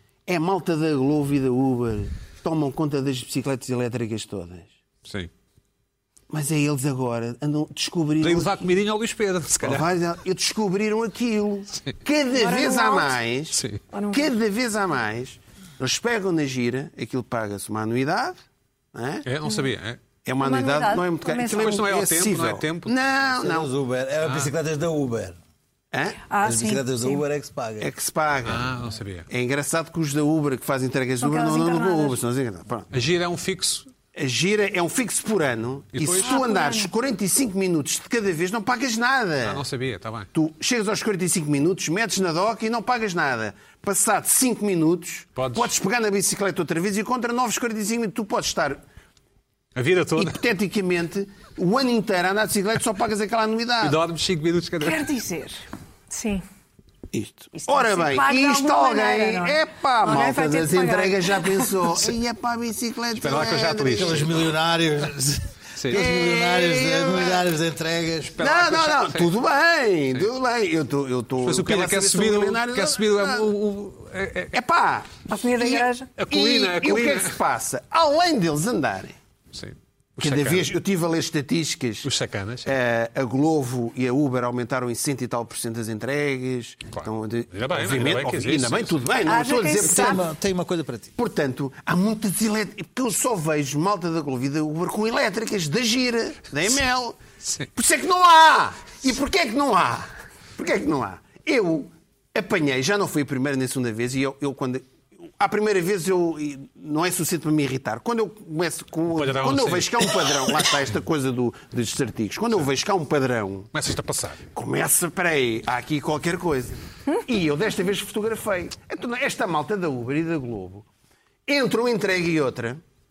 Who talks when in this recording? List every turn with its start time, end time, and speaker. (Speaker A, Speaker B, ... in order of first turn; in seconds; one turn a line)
Speaker A: 0.3-4.7
Speaker B: 5.0-5.3
Speaker A: 6.3-8.7
Speaker B: 8.2-9.9
Speaker A: 9.6-18.4
Speaker C: 12.3-13.2
Speaker B: 13.5-13.8
Speaker C: 13.9-14.3
Speaker A: 18.9-19.3
Speaker B: 19.2-20.0
Speaker A: 20.2-23.7
Speaker C: 20.4-21.7
Speaker B: 21.5-23.0
Speaker D: 23.4-25.4
Speaker B: 24.2-24.5
Speaker A: 25.9-26.2
Speaker C: 26.3-27.2
Speaker D: 26.4-27.9
Speaker A: 27.8-28.8
Speaker B: 28.4-29.3
Speaker A: 29.3-32.9
Speaker C: 31.2-32.2
Speaker B: 32.9-33.9
Speaker A: 34.1-39.6
Speaker B: 35.9-36.4
Speaker C: 36.2-36.9
Speaker B: 39.4-40.3
Speaker A: 40.3-48.8
Speaker B: 45.4-45.7
Speaker B: 49.8-50.4
Speaker A: 50.2-54.0
Speaker B: 53.8-55.0
Speaker C: 54.8-56.4
Speaker A: 57.1-64.4
Speaker C: 57.6-62.1
Speaker B: 63.1-64.3
Speaker D: 63.9-68.4
Speaker B: 65.8-66.0
Speaker A: 65.9-67.5
Speaker B: 68.2-69.3
Speaker A: 68.4-73.5
Speaker B: 71.4-74.6
Speaker A: 74.5-79.2
Speaker C: 75.3-76.1
Speaker B: 76.2-77.4
Speaker B: 79.5-80.7
Speaker A: 80.2-82.1
Speaker B: 82.0-82.7
Speaker A: 82.7-90.2
Speaker B: 86.9-89.1
Speaker C: 89.2-90.2
Speaker D: 89.8-91.1
Speaker A: 91.2-97.2
Speaker A: 97.7-113.7
Speaker B: 109.1-110.7
Speaker B: 113.7-114.4
Speaker A: 114.5-120.9
Speaker A: 121.5-122.8